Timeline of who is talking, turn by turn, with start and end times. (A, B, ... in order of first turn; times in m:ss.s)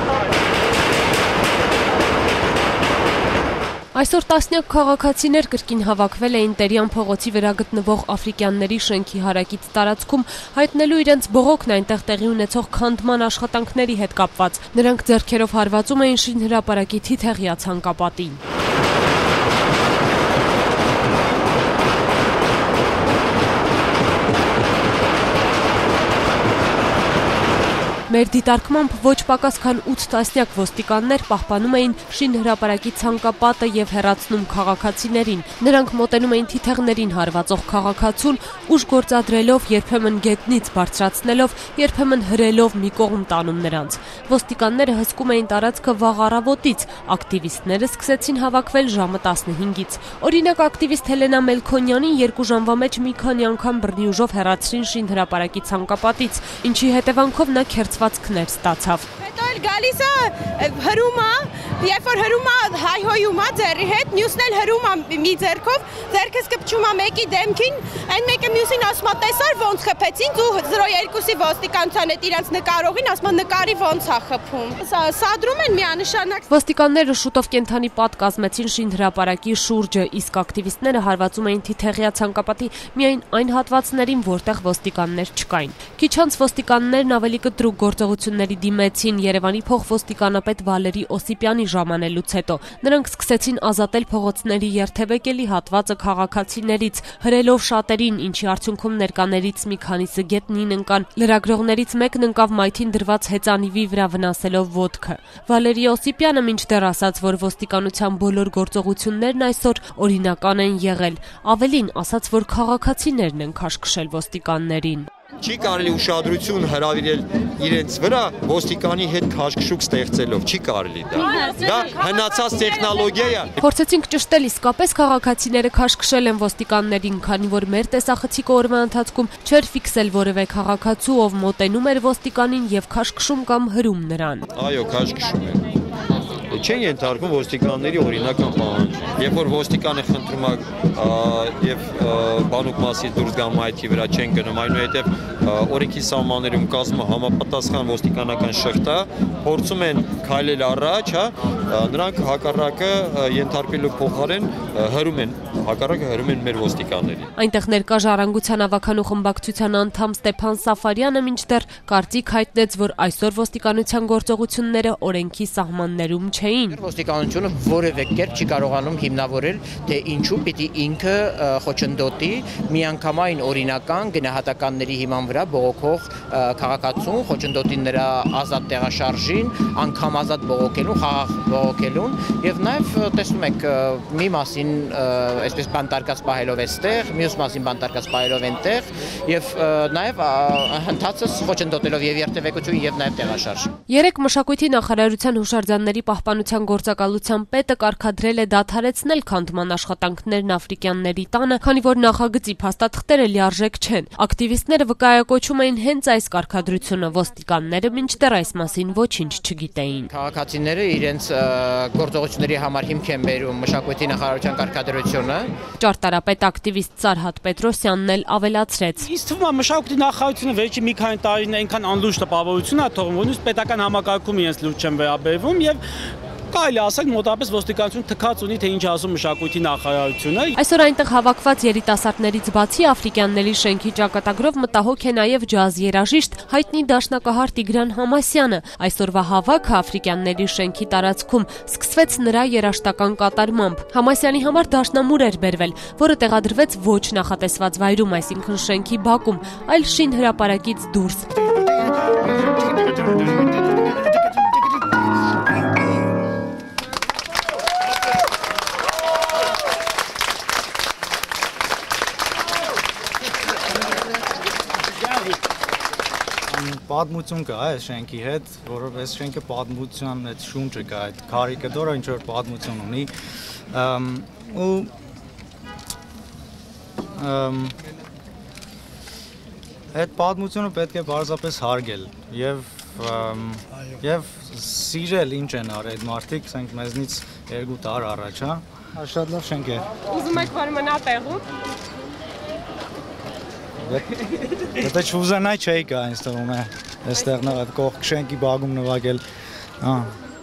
0:04.0-0:18.4 A
0:28.1-0:59.0 A
0:59.2-1:16.4 B
1:16.5-1:55.1 A
1:55.4-2:03.5 C
2:03.6-2:14.4 A
2:14.5-2:15.6 C
2:16.5-2:37.3 C
2:37.4-2:46.8 A
2:46.7-3:13.7 D
3:13.9-3:30.1 A
3:30.1-3:35.5 D
3:35.8-3:39.1 A
3:39.0-3:45.8 E
3:46.5-3:50.6 E
3:50.6-4:11.3 A
4:26.5-4:33.1 F
4:33.7-4:34.9 F
4:37.2-4:37.8 F
4:39.9-4:50.7 F
4:54.8-4:59.2 F
4:59.8-5:00.1 F